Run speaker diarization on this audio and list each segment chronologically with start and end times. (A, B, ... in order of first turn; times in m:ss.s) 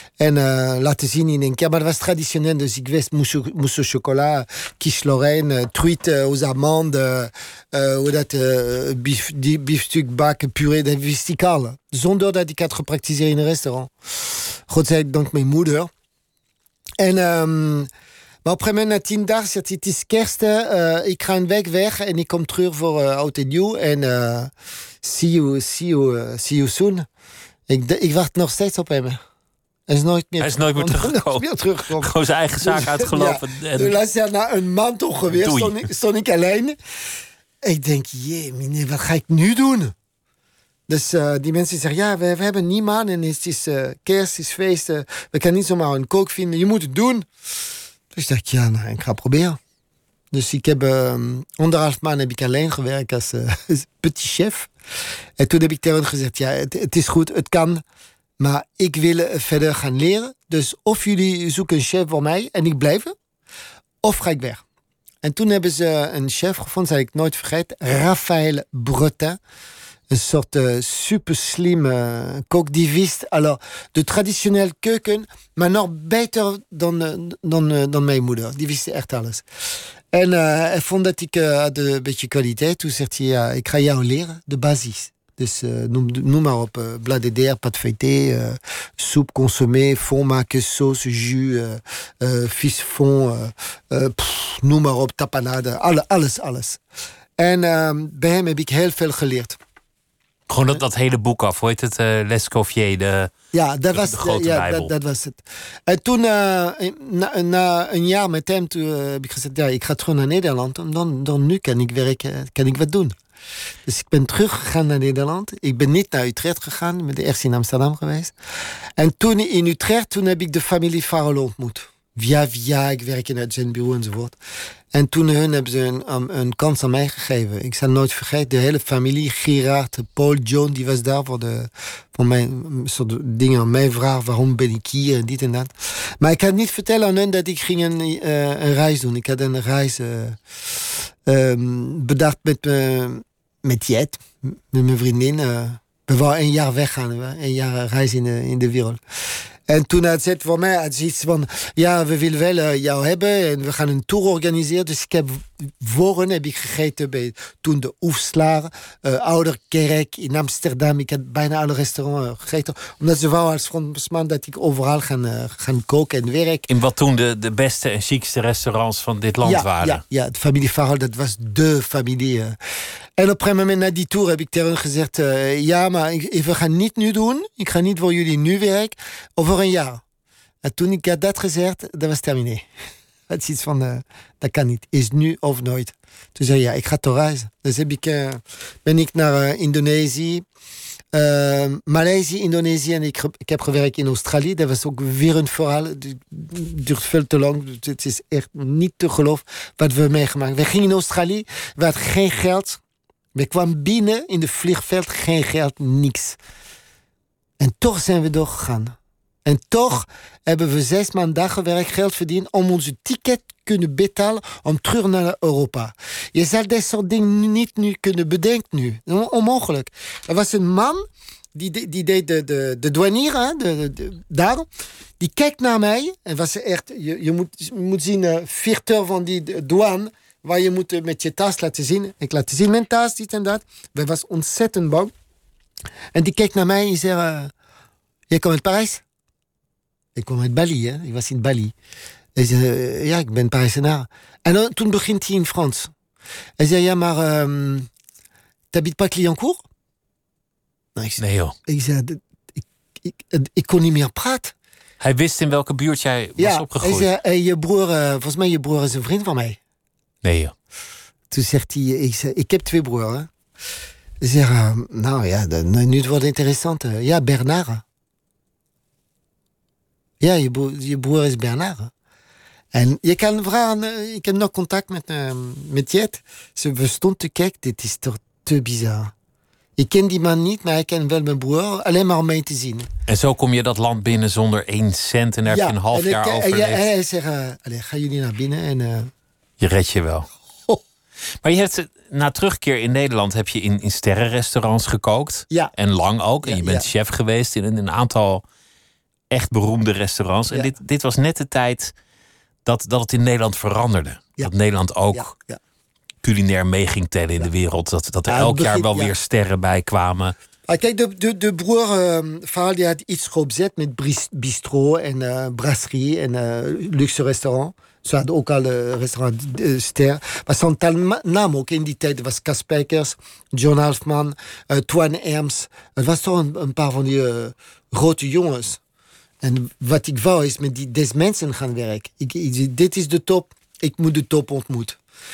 0:00.2-0:15.9 A
0:17.0-0:17.9 A
0:18.4-0:27.1 A
0:27.7-0:29.2 A
0:29.9-0:36.8 A
0:30.4-0:34.0 B
0:35.3-0:35.8 B
0:37.6-0:39.9 A
0:40.9-0:47.3 A
0:48.1-0:49.6 A
0:50.3-0:54.7 A
0:55.4-0:57.8 A
0:58.4-1:03.1 A
1:04.0-1:04.6 A
1:05.2-1:09.4 A
1:10.1-1:19.4 A
1:20.1-1:36.8 A
1:37.4-1:39.6 A
1:40.5-1:43.3 B
1:43.5-1:53.1 A
1:43.9-1:44.9 B
1:53.9-1:58.3 A
1:59.0-2:04.4 A
2:04.9-2:20.4 A
2:21.2-2:29.0 A
2:29.7-2:46.7 A
2:46.7-2:50.0 B
2:49.4-2:52.6 A
2:53.2-3:00.0 A
3:00.6-3:02.7 A
3:03.3-3:10.4 A
3:11.1-3:22.8 A
3:23.4-3:26.4 A
3:27.6-3:41.0 A
3:41.6-3:44.7 A
3:45.2-3:55.1 A
3:56.1-3:57.5 A
3:58.3-3:59.0 A
4:00.1-4:01.7 A
4:02.4-4:05.9 A
4:06.6-4:07.9 A
4:08.7-4:09.6 A
4:11.0-4:14.5 A
4:11.2-4:11.6 B
4:15.0-4:17.1 B
4:16.4-4:19.6 A
4:20.2-4:20.5 B
4:21.3-4:23.3 A
4:24.2-4:27.8 A
4:30.2-4:31.9 A
4:32.7-4:39.1 A
4:39.8-4:42.9 A
4:43.1-4:46.9 B
4:45.5-4:49.1 A
4:49.6-4:50.3 B
4:51.4-4:58.4 B
4:56.4-4:56.9 A
4:59.3-5:01.9 B
5:02.7-5:05.3 B
5:05.1-5:05.6 A
5:06.2-5:10.4 B
5:08.3-5:09.1 A
5:10.7-5:28.8 A
5:29.4-5:35.0 A